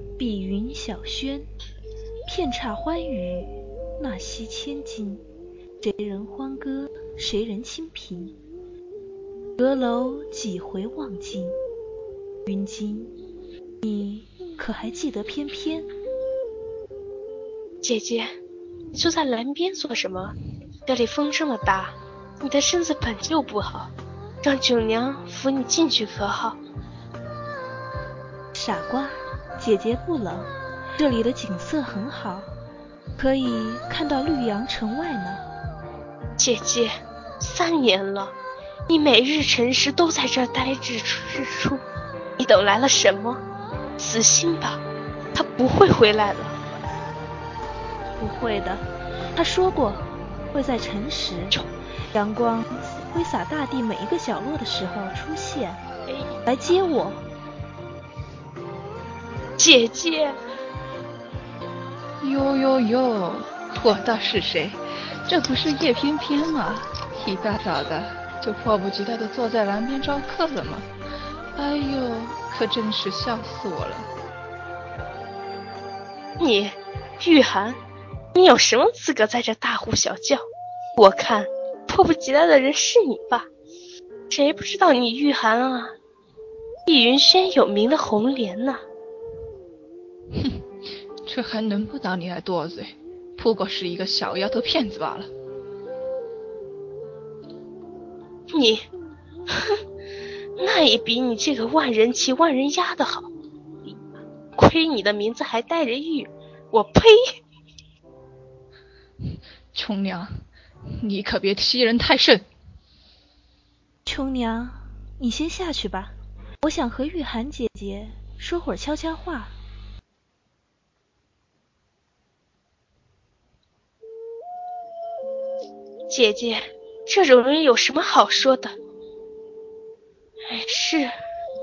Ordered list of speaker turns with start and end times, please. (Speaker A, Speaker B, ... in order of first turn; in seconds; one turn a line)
Speaker A: 0.2-1.5
Speaker A: 2.3-5.2
Speaker A: 5.8-8.4
Speaker A: 9.6-11.6
Speaker A: 12.4-13.2
Speaker A: 13.8-15.9
Speaker B: 17.8-18.3
Speaker B: 18.9-23.9
Speaker B: 24.4-26.6
Speaker A: 28.5-32.5
Speaker A: 33.2-35.5
Speaker B: 36.4-38.4
Speaker B: 38.9-41.8
Speaker B: 42.4-43.4
Speaker B: 44.0-44.8
Speaker B: 45.4-46.6
Speaker A: 48.2-51.6
Speaker A: 52.1-55.8
Speaker A: 56.5-57.2
Speaker B: 59.6-60.4
Speaker C: 62.2-70.9
Speaker C: 71.5-74.1
Speaker B: 76.4-77.8
Speaker B: 78.3-80.4
Speaker B: 81.0-83.5
Speaker B: 84.3-85.9
Speaker B: 86.9-88.8
Speaker C: 90.3-90.6
Speaker C: 91.2-95.3
Speaker B: 98.5-98.9
Speaker B: 99.5-99.8
Speaker B: 100.6-103.3
Speaker B: 103.8-107.2
Speaker C: 109.7-110.4
Speaker C: 110.9-112.5
Speaker A: 114.0-119.6
Speaker B: 126.1-128.8
Speaker B: 130.5-131.1